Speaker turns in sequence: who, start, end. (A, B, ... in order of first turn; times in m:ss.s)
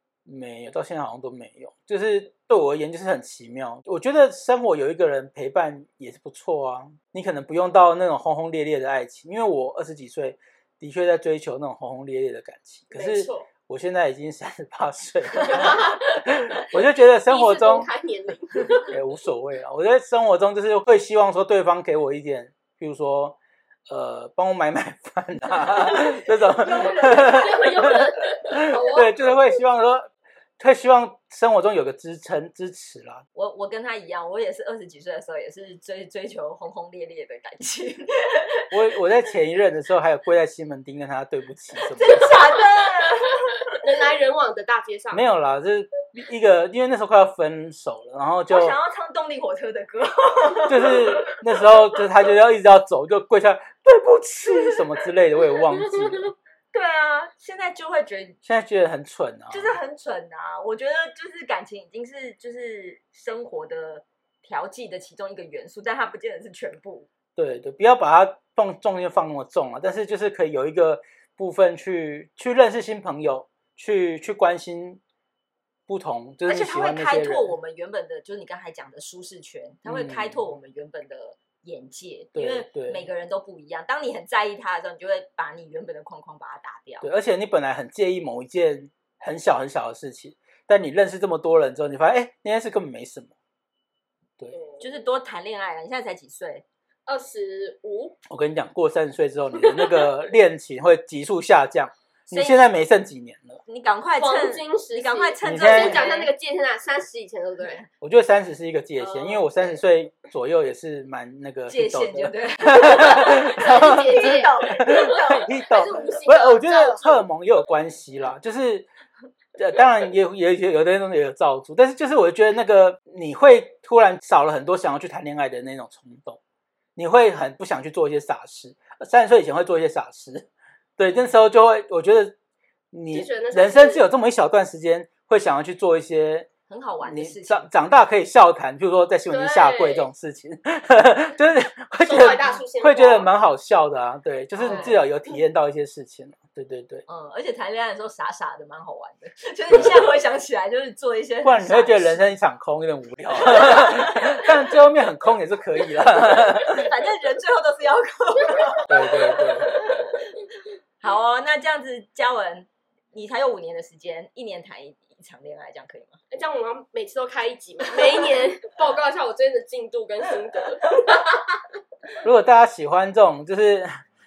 0:00.3-0:17.9 A
0:12.9-0:13.5 B
0:15.4-0:19.0 B
0:18.9-0:33.2 A
0:26.6-0:29.4 B
0:26.9-0:27.6 C
0:33.4-0:38.7 C
0:38.7-0:42.4 A
0:42.0-0:43.4 C
0:43.7-0:45.2 B
0:45.1-0:48.8 A
0:48.5-0:51.4 C
0:50.7-0:56.3 A
0:56.7-0:58.4 C
0:58.4-0:59.8 A
0:59.5-1:07.1 C
1:07.4-1:15.0 A
1:15.9-1:17.5 A
1:16.5-1:27.1 C
1:19.9-1:20.5 A
1:22.4-1:23.0 A
1:27.0-1:33.3 A
1:34.6-1:34.8 B
1:34.8-1:36.6 C
1:37.1-1:38.2 B
1:38.3-1:43.6 A
1:42.3-1:42.6 C
1:43.7-1:46.3 C
1:44.2-1:47.8 B
1:45.4-1:46.1 A
1:48.0-1:58.9 A
1:49.0-1:49.8 B
1:51.7-1:55.6 C
1:53.4-1:57.3 B
1:59.6-2:06.4 A
2:07.0-2:12.4 A
2:12.9-2:16.5 A
2:13.1-2:14.0 B
2:16.7-2:17.7 C
2:17.0-2:27.0 A
2:19.3-2:20.1 B
2:22.1-2:23.3 B
2:24.6-2:25.0 C
2:24.7-2:24.9 B
2:27.1-2:32.2 C
2:29.7-2:30.0 A
2:31.4-2:36.9 A
2:33.4-2:34.5 C
2:36.5-2:40.4 C
2:38.7-2:40.1 B
2:38.9-2:39.7 A
2:41.0-2:46.2 C
2:46.3-2:51.5 B
2:47.9-2:48.5 C
2:52.2-2:54.0 A